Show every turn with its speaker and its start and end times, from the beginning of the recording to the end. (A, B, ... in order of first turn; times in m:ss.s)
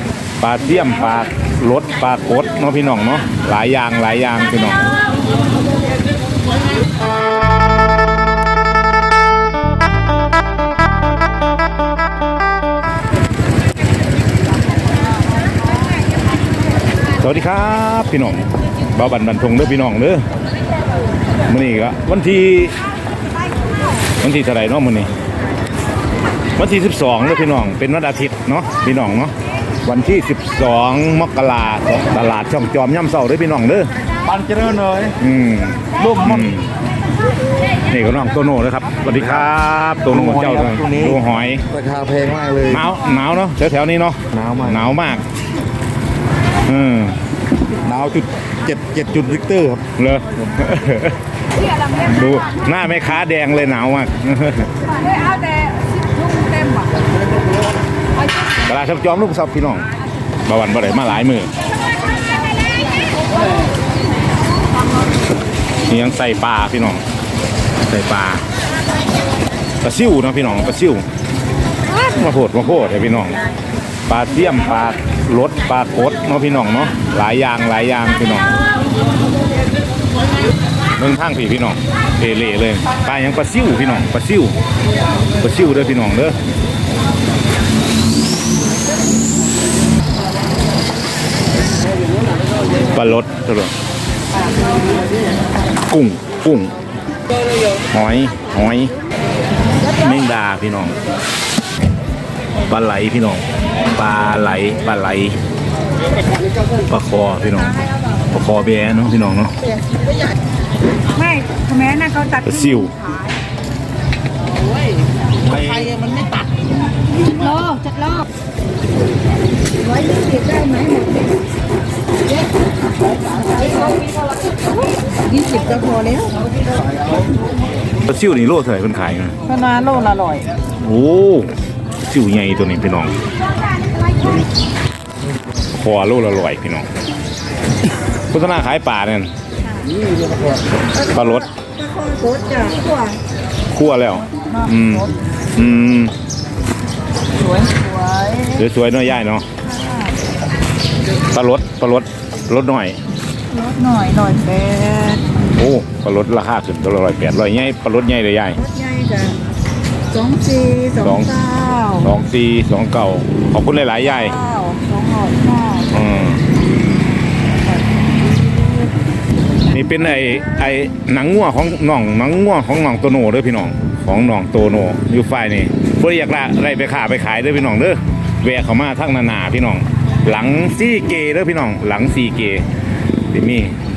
0:00.4-0:04.9 A
0:17.2-0:20.2 A
0:21.5-0:22.8 A
0:24.2-0:25.1 A
0:26.6-0:29.3 A
0:29.8-0:33.9 A
0:34.3-0:35.1 B
0:35.1-0:36.7 A
0:37.9-0:41.7 A
0:40.3-0:41.1 B
0:41.7-0:42.7 B
0:42.6-0:45.2 A
0:44.3-0:44.6 B
0:46.6-0:47.2 A
0:47.8-0:49.8 B
0:49.9-0:51.2 A
0:51.9-0:54.8 A
0:55.0-0:57.0 C
0:58.6-0:59.9 A
1:00.4-1:01.5 A
1:05.8-1:07.0 A
1:07.8-1:08.4 A
1:09.8-1:11.0 A
1:11.8-1:13.4 A
1:14.1-1:18.6 A
1:21.0-1:24.5 A
1:25.4-1:26.4 A
1:32.8-1:33.7 A
1:35.8-1:36.7 A
1:37.9-1:39.0 A
1:39.8-1:41.0 A
1:42.7-1:45.4 A
1:46.8-1:49.6 A
1:51.1-1:53.1 C
1:52.4-1:53.0 A
1:55.6-1:56.4 C
1:57.3-1:58.2 C
1:59.8-2:01.3 C
2:03.5-2:04.0 C
2:05.2-2:06.4 C
2:08.0-2:09.4 A
2:09.4-2:10.5 C
2:10.7-2:13.1 A
2:15.7-2:16.9 A
2:18.3-2:19.3 A
2:21.0-2:21.5 A
2:21.8-2:23.2 C
2:23.7-2:26.1 A
2:27.4-2:28.6 C
2:28.5-2:29.5 A
2:29.7-2:30.1 C
2:31.2-2:33.0 A
2:33.5-2:35.3 C
2:35.4-2:38.6 A
2:38.6-2:39.4 C
2:40.1-2:42.0 C
2:41.0-2:41.4 A
2:41.9-2:44.4 A
2:44.3-2:45.9 C
2:45.9-2:46.4 A
2:49.7-3:02.7 A
3:03.3-3:03.8 A